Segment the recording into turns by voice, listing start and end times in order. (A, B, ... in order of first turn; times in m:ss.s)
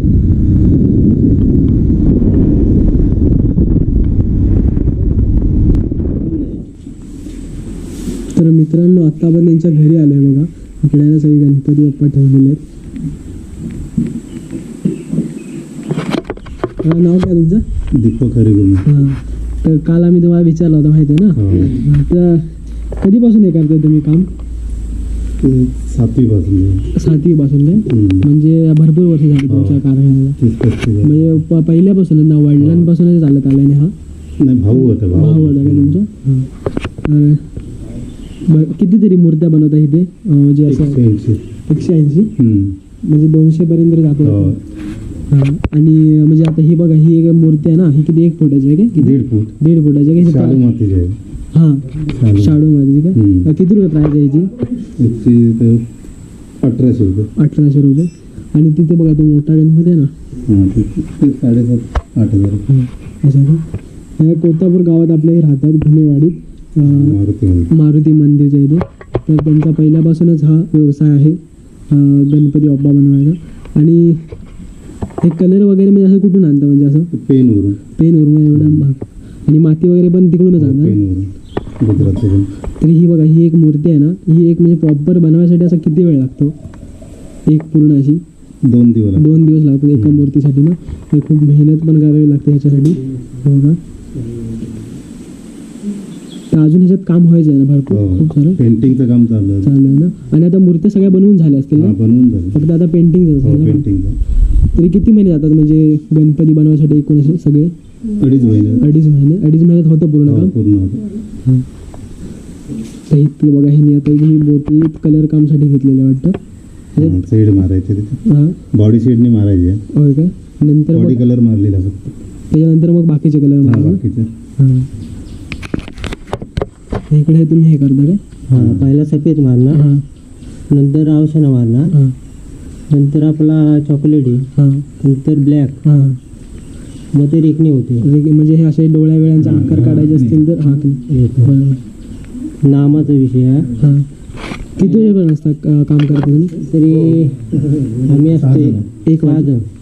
0:08.3-0:12.6 A
0:16.8-0:17.6 A
0:17.9-0:18.9 B
0:18.8-0:24.3 A
0:21.3-0:21.8 B
0:25.4-0:26.9 B
0:26.9-0:30.4 A
0:27.8-0:28.3 B
0:29.5-0:29.8 B
0:30.4-0:31.4 B
0:31.0-0:33.9 A
0:32.6-0:32.9 B
0:34.4-0:36.0 B
0:34.9-0:36.5 A
0:37.0-0:37.4 A
0:38.4-0:41.0 A
0:40.7-0:41.4 B
0:41.7-0:42.3 A
0:42.4-0:42.8 B
0:43.0-0:44.6 A
0:44.2-0:44.6 B
0:45.3-0:50.6 A
0:48.9-0:49.5 B
0:50.2-0:51.2 B
0:51.5-0:54.6 A
0:52.0-0:52.6 B
0:53.1-0:53.5 B
0:54.8-0:55.8 B
0:56.6-0:57.3 B
0:57.4-1:00.1 A
1:00.4-1:02.6 B
1:02.7-1:03.6 A
1:04.2-1:07.2 A
1:06.8-1:07.7 B
1:07.7-1:14.3 A
1:15.2-1:17.1 A
1:17.1-1:17.8 B
1:17.9-1:21.0 A
1:18.5-1:18.9 B
1:20.6-1:22.5 B
1:22.8-1:26.5 A
1:27.4-1:28.2 A
1:28.6-1:29.4 B
1:29.2-1:33.8 A
1:29.9-1:30.3 B
1:36.5-1:38.6 A
1:37.9-1:39.8 B
1:39.6-1:42.0 A
1:41.7-1:42.6 B
1:42.5-1:43.9 A
1:43.4-1:44.2 B
1:44.7-1:47.7 A
1:48.1-1:48.9 B
1:48.8-1:50.5 A
1:50.2-1:51.1 B
1:53.1-1:56.4 A
1:56.9-1:57.2 A
1:57.0-1:59.8 B
1:58.2-1:58.6 A
1:59.9-2:01.2 A
2:00.9-2:02.1 B
2:02.5-2:04.0 A
2:03.6-2:04.3 B
2:04.6-2:04.9 A
2:07.1-2:08.2 A
2:08.5-2:09.8 C
2:08.5-2:08.9 B
2:09.7-2:10.0 A
2:10.7-2:11.9 C
2:12.9-2:14.5 C
2:14.5-2:14.8 A
2:15.0-2:15.8 C
2:15.8-2:16.2 A
2:17.1-2:18.1 C
2:18.0-2:21.8 A
2:19.4-2:20.4 B
2:21.1-2:21.6 C
2:22.6-2:23.7 C
2:23.8-2:24.1 A
2:24.8-2:26.6 A
2:24.8-2:25.1 C
2:26.6-2:27.5 C
2:26.9-2:28.9 B
2:28.0-2:29.6 C
2:29.0-2:29.5 A